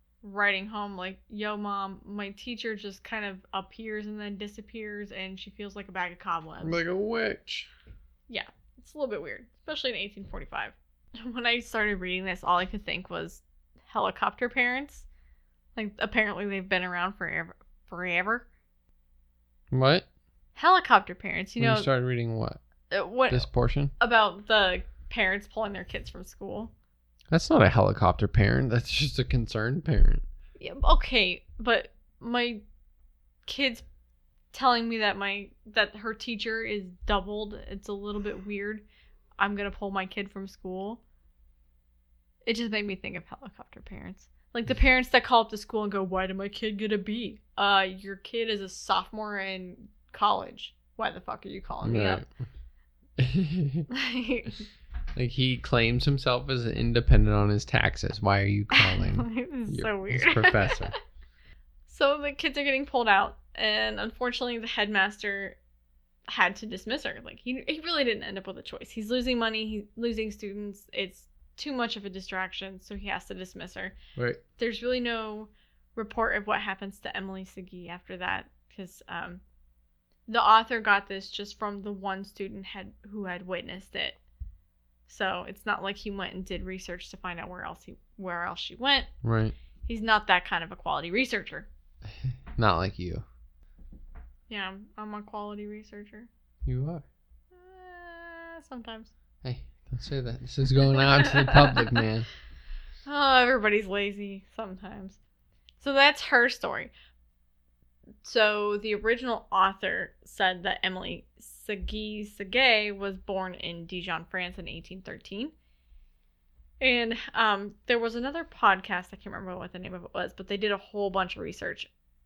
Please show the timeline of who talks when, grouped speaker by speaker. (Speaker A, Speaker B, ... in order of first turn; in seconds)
Speaker A: 0.2-6.8, 8.3-15.1, 15.7-18.5, 20.6-21.9, 22.9-26.7, 30.6-32.6, 33.5-33.8, 34.5-38.9, 39.4-41.0, 42.5-52.2, 53.9-54.7, 58.7-60.9, 61.9-65.6, 66.3-74.0, 74.6-79.4, 80.3-84.2, 85.1-89.1, 89.8-91.7, 94.5-96.3, 97.5-99.1, 101.0-102.0, 103.0-105.2, 105.8-106.9, 108.2-115.5, 116.8-121.9
Speaker B: 6.6-7.7, 19.7-20.1, 21.6-22.6, 23.3-23.9, 27.3-30.2, 51.8-52.3, 53.2-53.9, 55.1-60.9, 89.2-89.5, 92.0-93.2, 96.6-97.0, 99.4-102.3